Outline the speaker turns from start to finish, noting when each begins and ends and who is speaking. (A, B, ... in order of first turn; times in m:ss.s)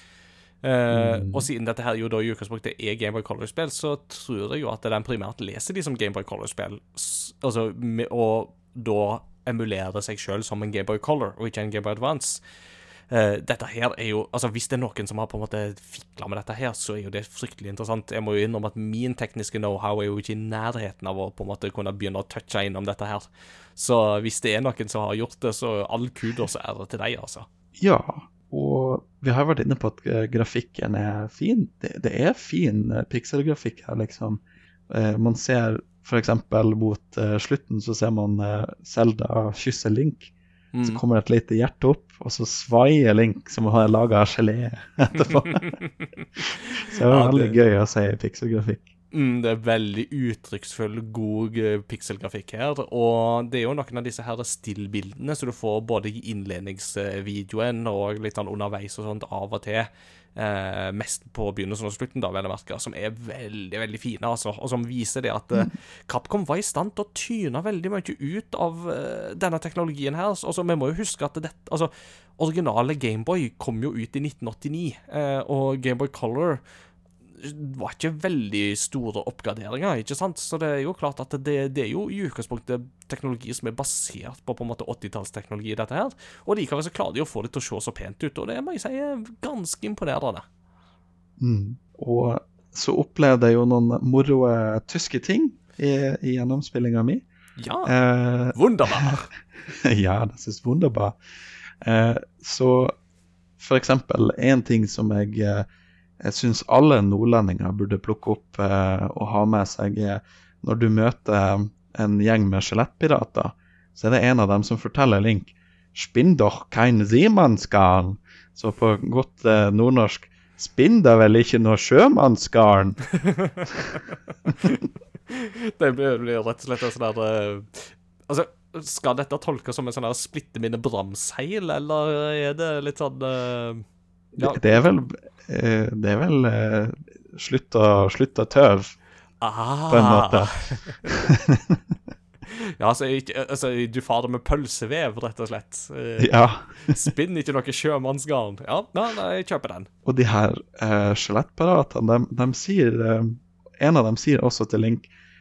0:00.6-0:12.4 A
0:00.9-0:01.5 B
0:13.1-0:27.5 A
0:27.8-0:40.3 B
0:40.7-0:41.0 A
0:40.8-0:45.7 B
0:45.5-0:47.6 A
0:46.8-0:48.9 B
0:49.1-1:16.6 A
1:17.4-1:30.4 A
1:31.4-1:37.2 B
1:37.6-1:37.9 A
1:37.8-1:39.2 B
1:38.5-1:39.3 A
1:39.7-1:41.2 B
1:41.8-1:42.9 B
1:43.6-1:45.6 B
1:46.2-2:03.0 B
2:03.2-2:03.6 A
2:05.3-2:13.8 A
2:14.3-2:18.9 B
2:14.4-2:14.9 A
2:19.4-2:21.0 A
2:19.9-2:20.5 B
2:21.0-2:21.8 B
2:22.5-2:29.9 A
2:26.2-2:27.1 B
2:30.0-2:35.1 B